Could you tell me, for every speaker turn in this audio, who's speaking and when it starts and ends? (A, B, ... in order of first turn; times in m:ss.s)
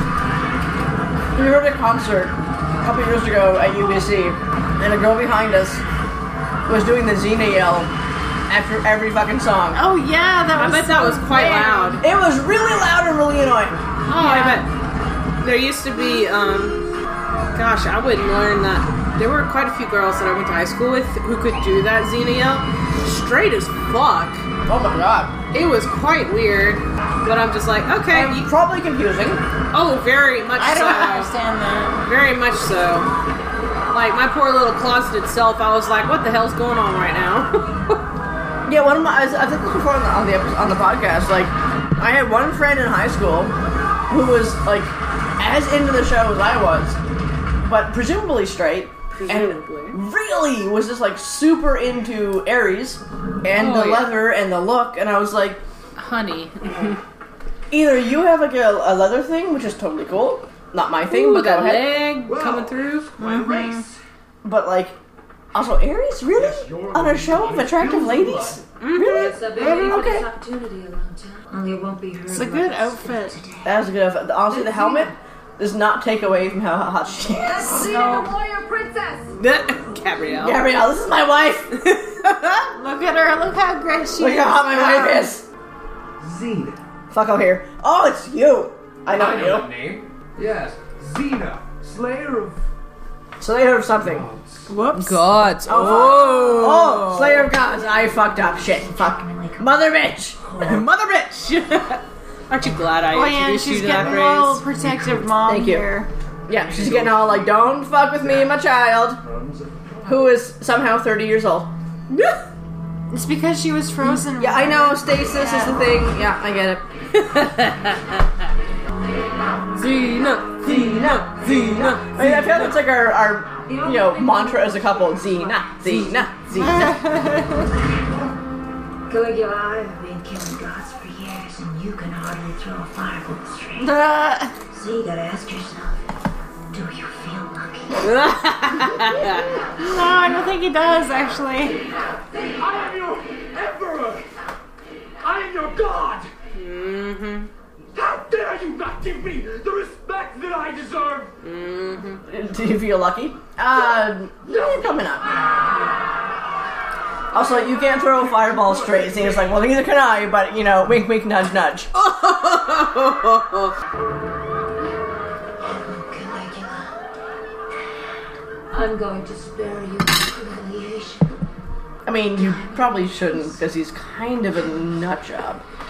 0:01.3-0:05.8 A
0:06.7-0:07.9 A
0:08.5-0:09.8 A
0:09.7-0:12.0 B
0:10.6-0:12.0 C
0:12.0-0:13.8 A
0:14.1-0:14.7 C
0:14.1-0:14.6 B
0:15.4-0:16.8 C
0:17.5-0:24.4 C
0:24.7-0:25.3 A
0:25.5-0:28.5 C
0:28.1-0:29.4 A
0:29.7-0:31.3 C
0:30.6-0:32.0 B
0:32.0-0:33.1 C
0:33.9-0:38.0 C
0:38.6-0:43.5 A
0:44.1-0:47.0 A
0:47.6-0:55.6 A
0:49.1-0:50.0 C
0:53.5-0:54.1 C
0:56.0-0:57.0 C
0:57.7-1:02.1 A
1:01.1-1:03.2 C
1:02.2-1:04.0 D
1:03.2-1:03.8 B
1:04.4-1:05.0 A
1:05.5-1:10.2 A
1:06.3-1:08.6 D
1:08.8-1:10.1 C
1:09.0-1:13.8 E
1:12.3-1:13.4 B
1:13.6-1:17.9 A
1:14.5-1:15.1 E
1:17.4-1:19.4 E
1:17.8-1:18.3 B
1:19.4-1:20.6 C
1:20.4-1:21.8 A
1:21.8-1:22.7 C
1:22.7-1:25.3 B
1:24.2-1:25.4 A
1:26.2-1:26.8 D
1:27.1-1:29.7 A
1:29.1-1:32.6 D
1:33.4-1:34.3 A
1:34.0-1:34.7 D
1:34.7-1:35.2 B
1:34.9-1:37.4 C
1:35.6-1:40.7 A
1:37.2-1:39.8 E
1:40.4-1:40.8 E
1:40.6-1:44.6 C
1:43.1-1:46.1 B
1:44.8-1:45.3 D
1:45.4-1:45.9 A
1:46.5-1:49.2 A
1:46.5-1:48.6 D
1:49.1-1:50.4 D
1:50.0-1:51.7 A
1:52.1-1:52.4 C
1:53.1-1:55.8 B
1:54.4-1:56.8 A
1:57.1-1:58.1 C
1:59.7-2:02.8 C
2:00.6-2:07.1 A
2:03.7-2:06.1 E
2:05.8-2:06.2 C
2:06.5-2:07.7 B
2:07.9-2:08.2 E
2:09.1-2:14.1 E
2:13.8-2:14.5 B
2:14.7-2:16.0 E
2:16.7-2:18.1 E
2:18.0-2:19.5 C
2:19.8-2:21.8 B
2:22.6-2:24.3 D
2:25.2-2:26.3 D
2:26.5-2:27.5 C
2:27.9-2:31.3 D
2:31.4-2:32.2 C
2:32.2-2:35.2 A
2:34.4-2:34.9 D
2:37.3-2:41.9 A
2:38.2-2:39.6 D
2:41.9-2:43.7 C
2:45.6-2:47.0 E
2:48.7-2:51.4 E
2:52.0-2:55.6 A
2:52.4-2:53.6 E